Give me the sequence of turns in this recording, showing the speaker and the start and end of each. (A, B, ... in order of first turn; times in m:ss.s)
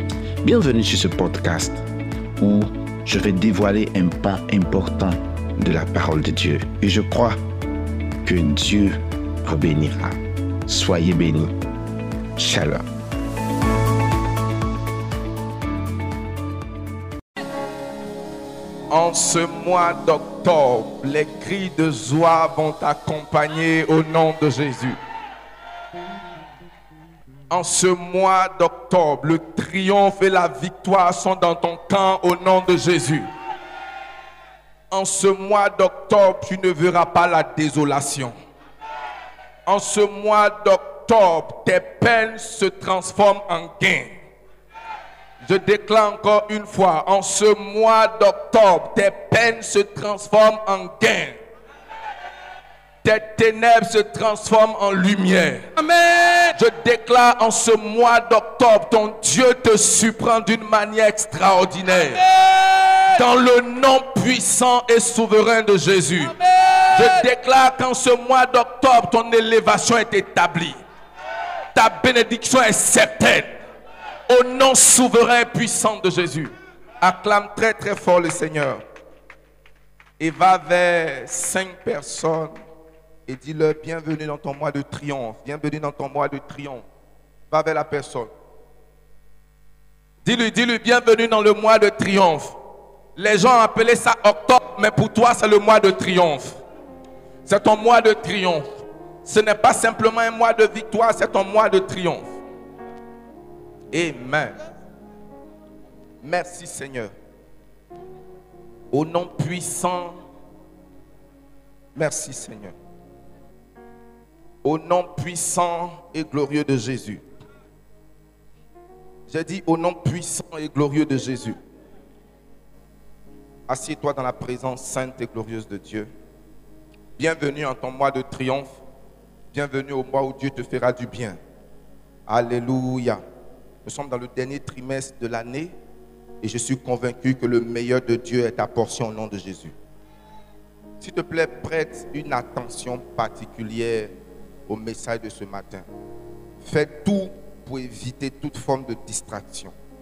0:00.4-0:01.8 A
0:02.4-0:07.4 A
0:08.2-0:11.6 A
0:12.4-0:12.8 A
0:18.9-0:25.0 B
0:27.5-0:33.3 B
0:34.9-0:38.4 B
0:39.7-0:44.2 B
0:45.4-0:51.4 B
0:53.0-0:55.7 B
0:55.8-0:56.6 C
0:56.5-1:02.2 B
1:01.9-1:03.2 C
1:03.2-1:06.3 B
1:06.2-1:07.3 C
1:06.9-1:10.8 B
1:11.7-1:13.5 B
1:14.3-1:18.8 B
1:20.2-1:22.6 B
1:23.3-1:26.8 B
1:27.5-1:28.3 B
1:30.2-1:32.6 B
1:33.2-1:36.6 B
1:37.4-1:42.3 B
1:43.9-1:44.6 B
1:46.2-1:47.1 B
1:48.9-1:50.2 B
1:52.0-1:52.8 B
1:54.6-1:57.2 B
1:59.3-2:01.6 B
2:03.7-2:06.1 B
2:07.2-2:08.8 B
2:09.5-2:11.4 B
2:12.3-2:13.2 B
2:13.8-2:15.7 B
2:16.4-2:19.7 B
2:21.0-2:24.1 B
2:24.7-2:25.9 B
2:26.6-2:29.7 B